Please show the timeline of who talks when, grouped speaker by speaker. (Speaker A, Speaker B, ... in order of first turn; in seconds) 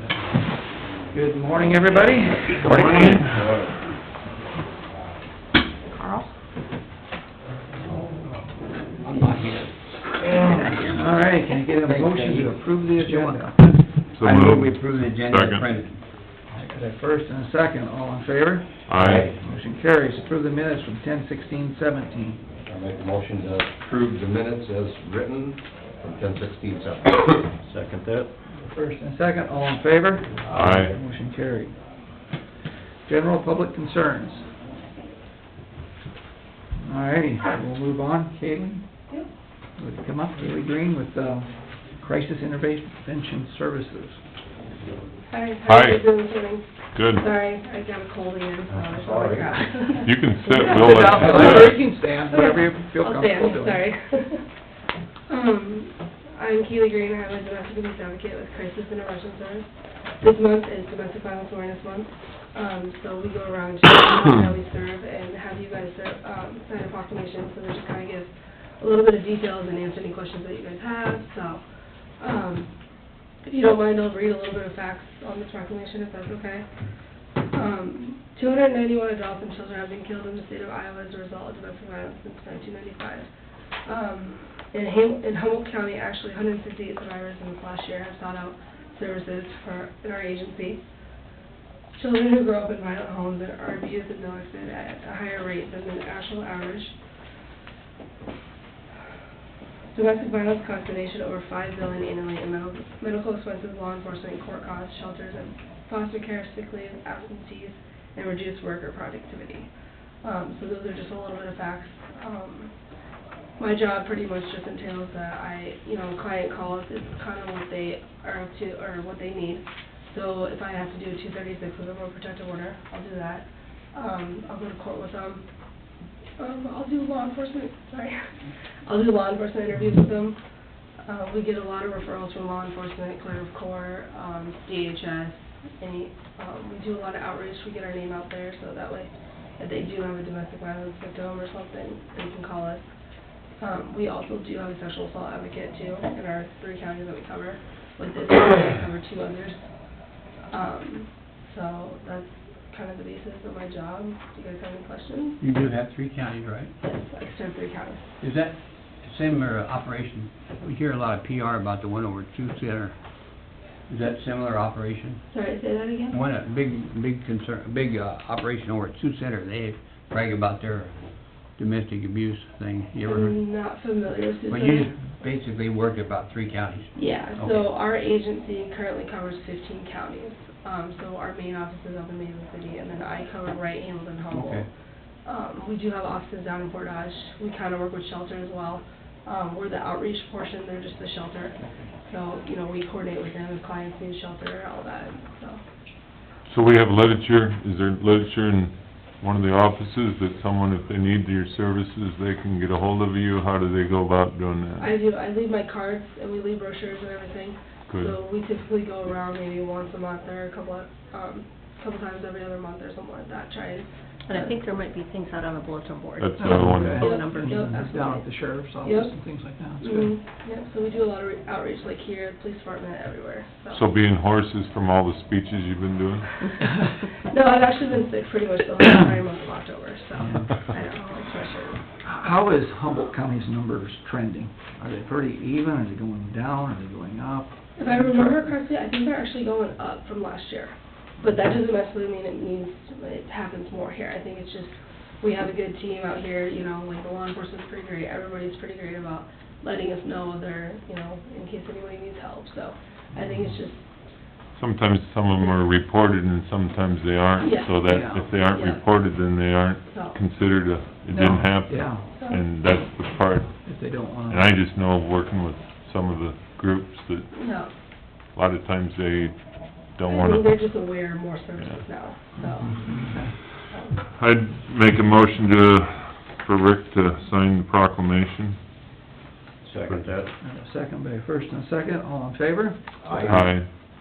Speaker A: 1.1-3.1, 10.4-13.7, 16.5-22.4, 28.4-31.8, 33.0-34.5, 36.8-38.9, 39.8-44.2, 50.6-53.8, 216.4-220.1, 230.2-230.5, 232.0-238.2, 253.2-253.5, 257.9-258.2, 261.1-262.1, 263.6-264.5, 272.5-273.4, 280.4-283.0
Speaker B: 2.6-3.3, 14.1-15.7, 18.9-19.3, 30.4-31.0, 45.7-46.2, 46.9-47.2, 50.0-51.8, 196.5-204.9, 207.9-208.2, 216.2-217.1, 223.7-226.4, 254.6-263.7, 264.3-267.4, 268.3-270.9, 271.6-271.8, 274.1-278.6, 283.3-283.7
Speaker C: 3.3-3.6, 19.0-19.3, 22.7-28.3, 48.7-49.5, 279.7-280.3, 283.0-283.6
Speaker D: 9.0-11.1, 11.8-16.0, 155.4-156.7, 158.2-165.2, 166.1-173.4, 174.5-177.7, 184.3-184.7, 279.7-280.1, 283.1-283.4
Speaker E: 45.3-54.4, 55.3-59.7, 60.2-71.6, 72.2-72.7, 73.5-76.7, 77.5-83.3, 83.9-90.8, 91.9-97.0, 99.9-109.7, 110.2-112.7, 113.6-125.5, 126.4-128.2, 128.9-130.4, 131.1-142.9, 143.6-149.7, 150.5-155.4, 156.8-158.0, 165.3-166.2, 173.0-174.9, 176.9-184.7, 185.2-195.6, 204.8-214.6, 216.8-218.2, 218.8-219.1, 219.8-223.8, 227.3-231.8, 237.8-253.9, 257.4-258.8, 259.9-260.2, 261.1-262.4, 267.3-267.7, 270.1-272.9, 273.7-274.0
Speaker F: 214.3-218.2